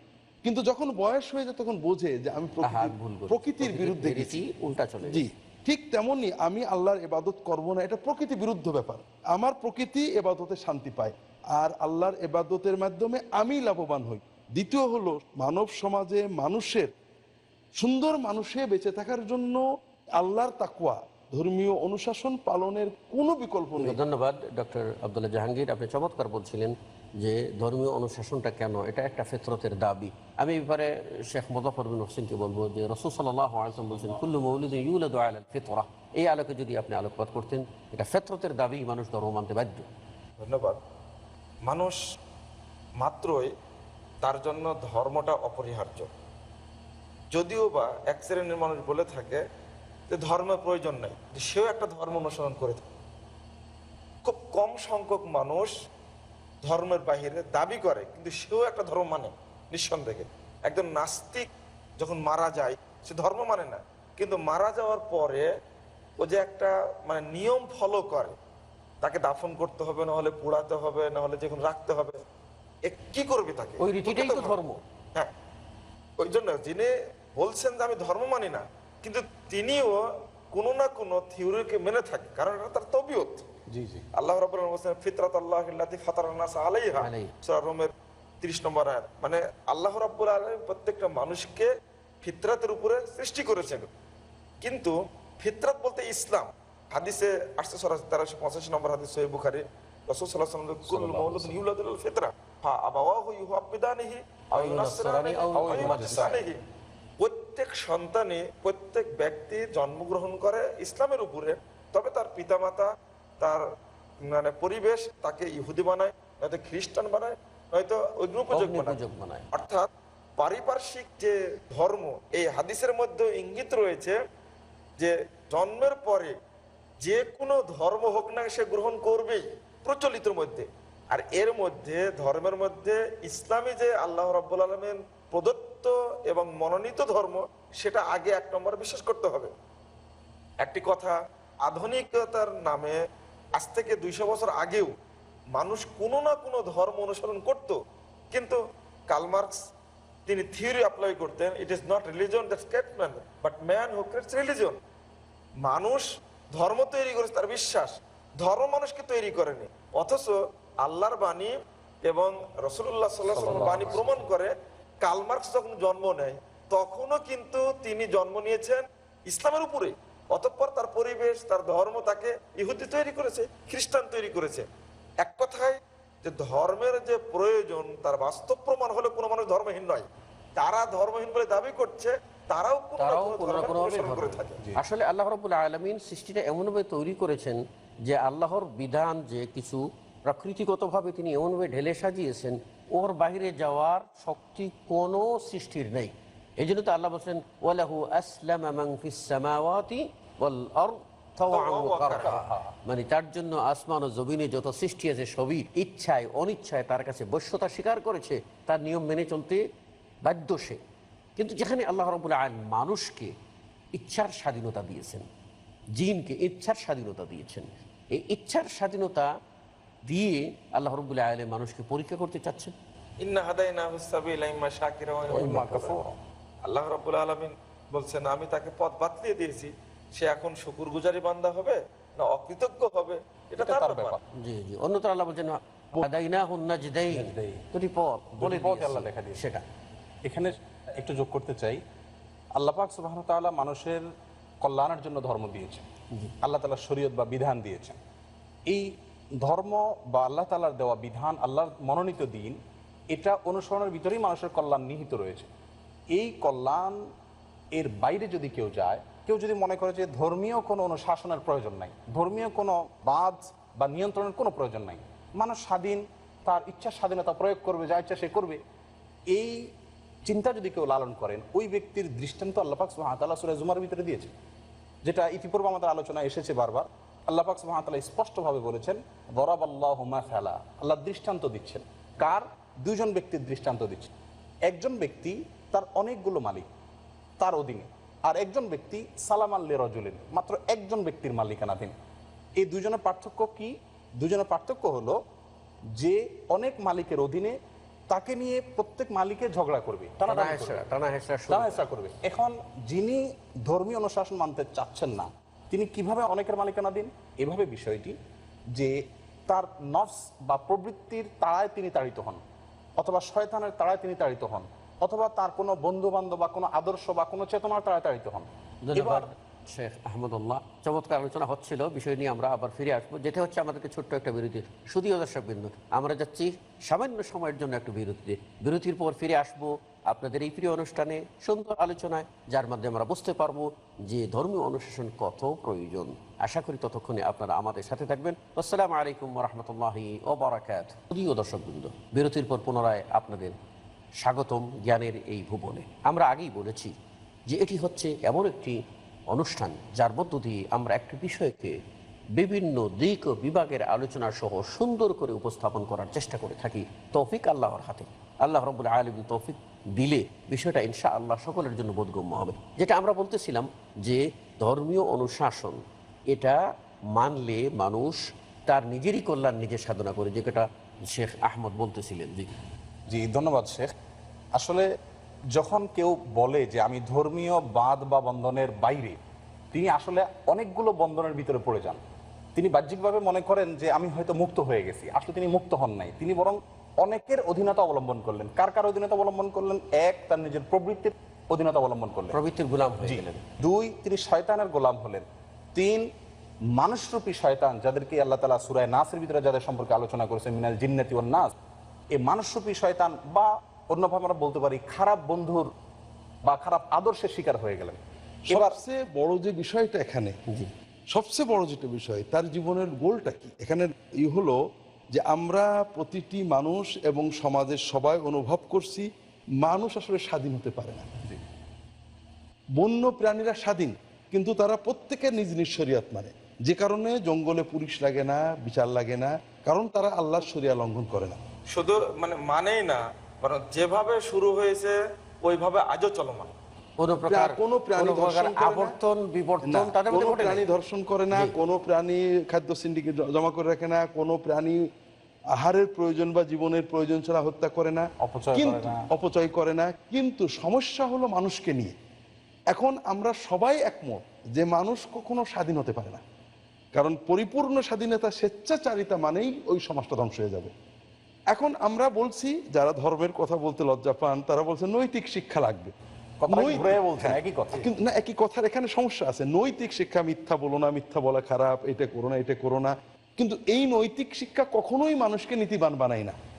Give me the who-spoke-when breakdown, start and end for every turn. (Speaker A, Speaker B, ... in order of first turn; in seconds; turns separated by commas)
Speaker A: 0.4-4.4, Speaker B: 2.6-5.2, Speaker A: 5.0-16.9, Speaker A: 17.8-19.6, Speaker A: 20.2-24.0, Speaker B: 23.8-39.9, Speaker C: 40.4-40.8, Speaker C: 41.7-42.0, Speaker C: 43.0-43.5, Speaker C: 44.2-46.1, Speaker C: 47.3-49.4, Speaker C: 50.1-52.9, Speaker C: 54.2-55.7, Speaker C: 56.6-61.5, Speaker C: 62.0-65.5, Speaker C: 66.2-68.3, Speaker C: 69.0-72.2, Speaker C: 72.8-74.6, Speaker B: 73.8-74.8, Speaker C: 76.2-83.4, Speaker D: 83.7-84.0, Speaker C: 84.2-91.7, Speaker B: 87.0-87.3, Speaker C: 92.2-93.9, Speaker C: 94.6-106.6, Speaker D: 100.9-101.6, Speaker B: 104.5-106.4, Speaker D: 105.5-106.5, Speaker C: 107.2-113.6, Speaker C: 114.2-119.0, Speaker B: 118.5-119.5, Speaker C: 119.5-119.9, Speaker C: 120.4-124.2, Speaker C: 125.0-126.3, Speaker C: 127.0-139.5, Speaker C: 140.6-141.1, Speaker C: 141.7-143.0, Speaker C: 143.6-144.9, Speaker C: 145.5-147.8, Speaker C: 148.3-149.6, Speaker C: 150.2-154.8, Speaker C: 155.6-161.5, Speaker C: 162.0-174.7, Speaker D: 163.2-164.3, Speaker C: 175.2-184.6, Speaker B: 183.0-209.6, Speaker C: 201.5-202.4, Speaker D: 202.1-202.7, Speaker B: 210.2-210.8, Speaker B: 211.4-213.3, Speaker B: 213.9-215.2, Speaker B: 216.0-219.3, Speaker B: 220.1-222.7, Speaker C: 223.2-226.0, Speaker D: 225.3-226.2, Speaker B: 225.3-225.7, Speaker C: 226.7-234.2, Speaker D: 233.6-234.2, Speaker B: 234.3-239.6, Speaker D: 237.1-237.6, Speaker D: 238.4-239.4, Speaker D: 240.2-241.8, Speaker D: 242.5-244.1, Speaker D: 244.6-245.8, Speaker D: 246.4-248.0, Speaker D: 248.7-252.6, Speaker D: 253.1-255.5, Speaker D: 256.1-257.1, Speaker D: 257.7-268.6, Speaker D: 269.3-269.7, Speaker D: 270.2-274.3, Speaker D: 275.0-284.1, Speaker D: 284.6-286.7, Speaker D: 287.4-291.9, Speaker D: 292.6-295.2, Speaker D: 295.9-297.5, Speaker D: 298.1-300.8, Speaker B: 300.3-301.8, Speaker D: 301.5-308.1, Speaker D: 308.7-312.4, Speaker D: 313.0-319.3, Speaker B: 318.8-343.6, Speaker B: 344.2-346.9, Speaker B: 347.5-351.8, Speaker B: 352.4-366.6, Speaker B: 367.1-372.5, Speaker D: 373.1-373.9, Speaker D: 374.5-374.9, Speaker D: 375.5-379.2, Speaker D: 379.7-382.0, Speaker D: 382.5-392.4, Speaker B: 392.3-393.4, Speaker D: 393.0-396.1, Speaker D: 396.8-401.5, Speaker D: 402.1-405.7, Speaker D: 406.4-408.8, Speaker A: 408.5-410.4, Speaker A: 411.1-414.6, Speaker A: 415.1-419.1, Speaker A: 419.6-421.1, Speaker A: 422.8-431.4, Speaker C: 431.7-436.5, Speaker B: 437.0-440.6, Speaker A: 437.3-438.9, Speaker A: 439.6-444.9, Speaker A: 445.5-451.9, Speaker D: 448.2-449.1, Speaker A: 452.7-456.2, Speaker A: 456.9-460.7, Speaker A: 461.5-465.9, Speaker D: 466.4-467.9, Speaker A: 466.5-476.4